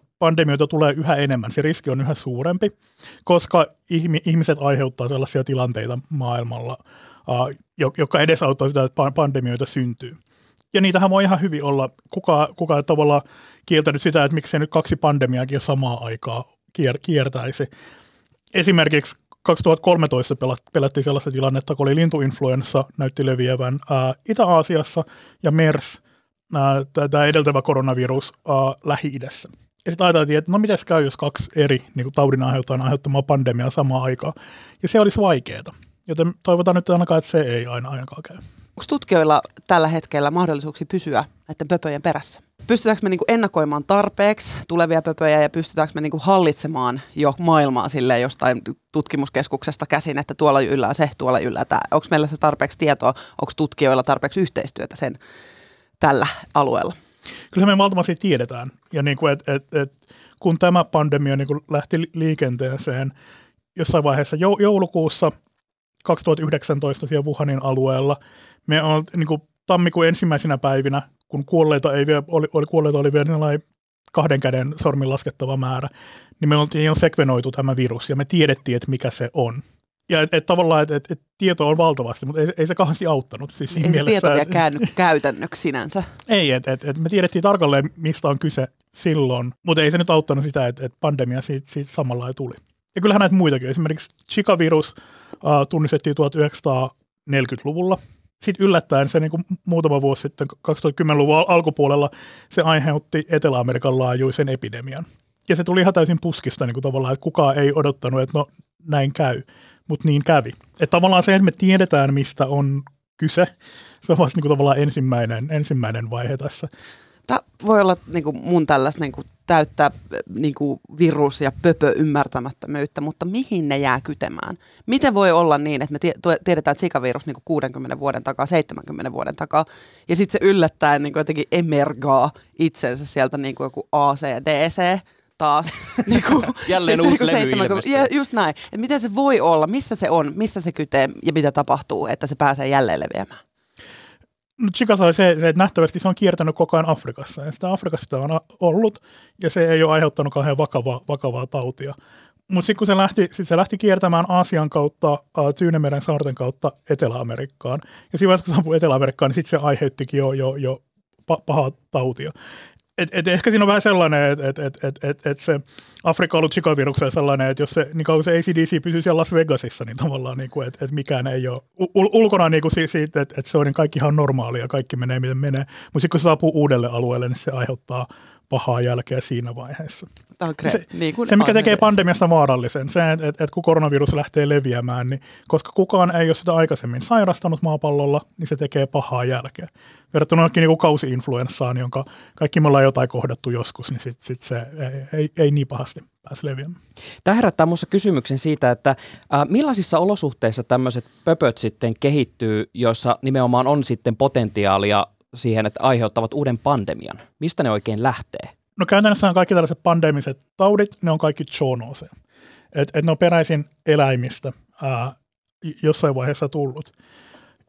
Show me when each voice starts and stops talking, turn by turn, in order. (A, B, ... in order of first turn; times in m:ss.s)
0:00.2-0:02.7 A
0:03.3-0:10.2 A
0:10.7-0:17.7 A
0:18.5-0:26.0 A
0:26.5-0:38.4 A
0:38.8-0:55.2 B
0:56.0-0:57.0 B
0:57.5-1:03.1 A
1:03.8-1:05.3 A
1:06.0-1:24.6 A
1:23.7-1:26.1 B
1:26.3-1:53.5 A
1:54.0-1:56.7 A
1:57.3-2:23.4 B
2:16.6-2:18.1 C
2:24.6-2:32.0 A
2:32.5-2:42.3 A
2:43.0-3:00.1 A
3:00.4-3:02.0 B
3:00.6-3:16.8 A
3:17.2-3:28.5 C
3:28.8-3:32.1 A
3:32.7-3:36.9 A